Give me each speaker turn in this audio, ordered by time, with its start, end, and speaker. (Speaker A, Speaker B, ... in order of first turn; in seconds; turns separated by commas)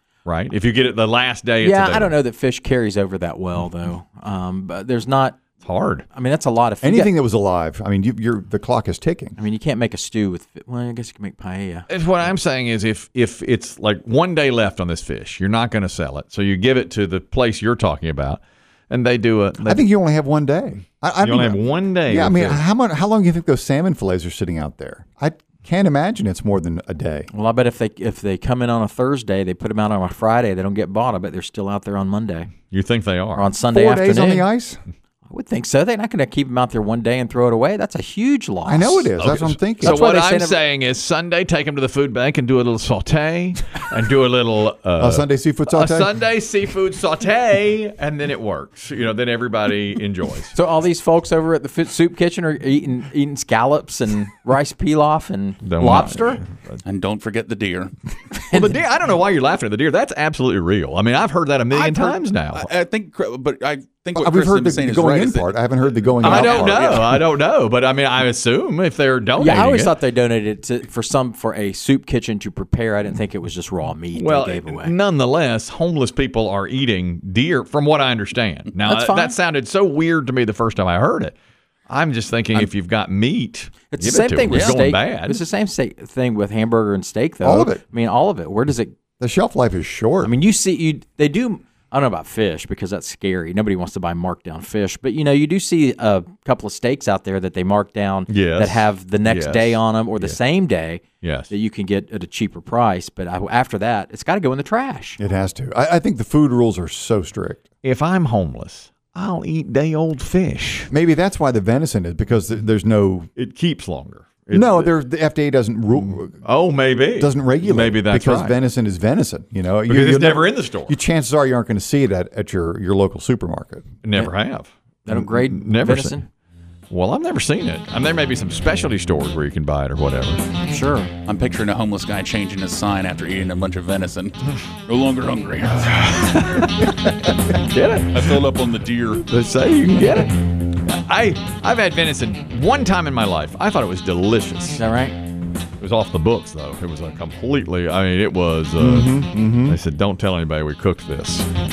Speaker A: 0.2-2.2, Speaker B: 1.6-5.4, Speaker A: 5.6-6.1, Speaker B: 6.1-7.1, Speaker C: 6.8-9.4, Speaker B: 9.4-11.9, Speaker A: 11.9-19.9, Speaker C: 19.6-27.3, Speaker A: 21.2-22.6, Speaker B: 27.3-32.5, Speaker A: 32.7-33.5, Speaker B: 33.4-34.5, Speaker C: 33.7-34.8, Speaker B: 35.3-39.1, Speaker C: 38.6-40.0, Speaker A: 39.2-50.5, Speaker B: 39.8-40.6, Speaker C: 45.0-46.1, Speaker B: 50.5-56.4, Speaker A: 55.6-56.8, Speaker D: 56.8-57.9, Speaker B: 58.5-58.7, Speaker A: 58.5-62.7, Speaker D: 61.7-67.2, Speaker C: 64.2-67.0, Speaker A: 66.2-69.9, Speaker B: 69.4-75.0, Speaker A: 74.2-81.4, Speaker B: 78.8-79.4, Speaker A: 81.9-85.4, Speaker B: 83.9-88.9, Speaker D: 84.5-84.8, Speaker C: 87.4-87.8, Speaker C: 89.2-90.3, Speaker B: 90.2-105.2, Speaker A: 98.3-100.4, Speaker A: 101.2-101.5, Speaker C: 105.2-107.6, Speaker A: 107.8-110.9, Speaker C: 110.9-113.3, Speaker A: 113.4-114.9, Speaker C: 114.5-116.4, Speaker A: 115.9-118.6, Speaker C: 117.2-123.9, Speaker A: 119.9-121.0, Speaker A: 124.0-126.2, Speaker B: 125.1-126.3, Speaker A: 126.9-130.4, Speaker B: 130.7-131.1, Speaker D: 131.2-136.4, Speaker A: 136.0-138.4, Speaker D: 138.1-139.2, Speaker A: 139.3-144.8, Speaker B: 144.8-145.2, Speaker A: 145.8-151.5, Speaker C: 148.8-149.8